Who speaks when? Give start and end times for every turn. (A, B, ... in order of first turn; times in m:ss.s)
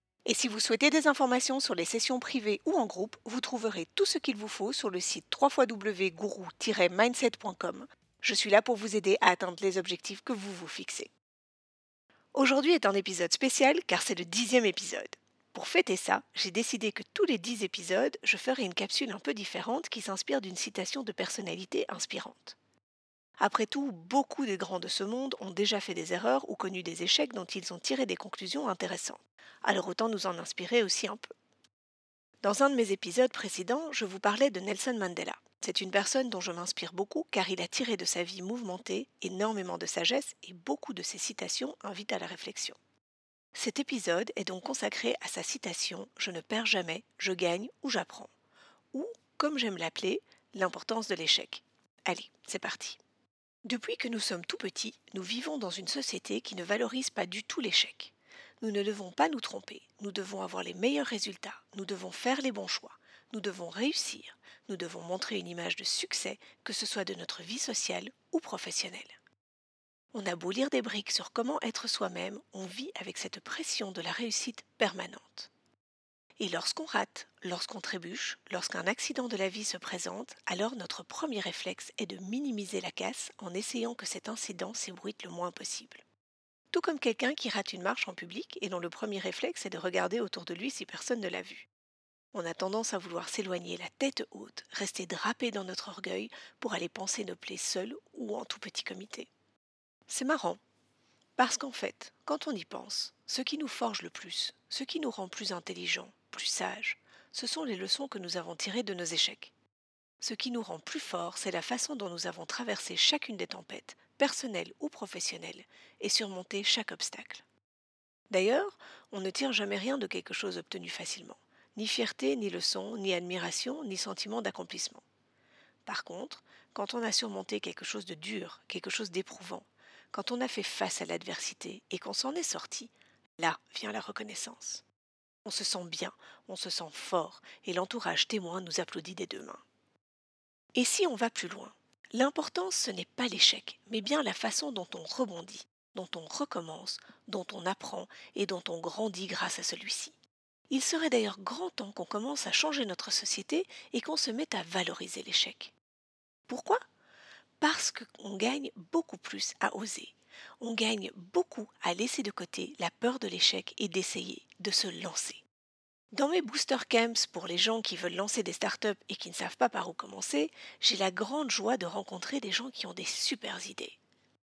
0:00.3-0:11.1 A
0:12.3-0:22.6 A
0:23.4-0:31.3 A
0:32.4-0:42.8 A
0:43.6-0:48.3 A
0:48.9-0:53.0 A
0:53.6-1:09.1 A
1:10.1-1:15.5 A
1:16.4-1:26.0 A
1:26.7-1:31.7 A
1:32.3-1:39.3 A
1:40.1-1:40.6 A
1:41.4-1:49.5 A
1:50.2-1:57.4 A
1:58.3-2:05.0 A
2:05.9-2:14.8 A
2:15.4-2:19.6 A
2:20.8-2:30.2 A
2:30.7-2:35.7 A
2:36.5-2:36.8 A
2:37.6-2:45.4 A
2:46.1-2:54.0 A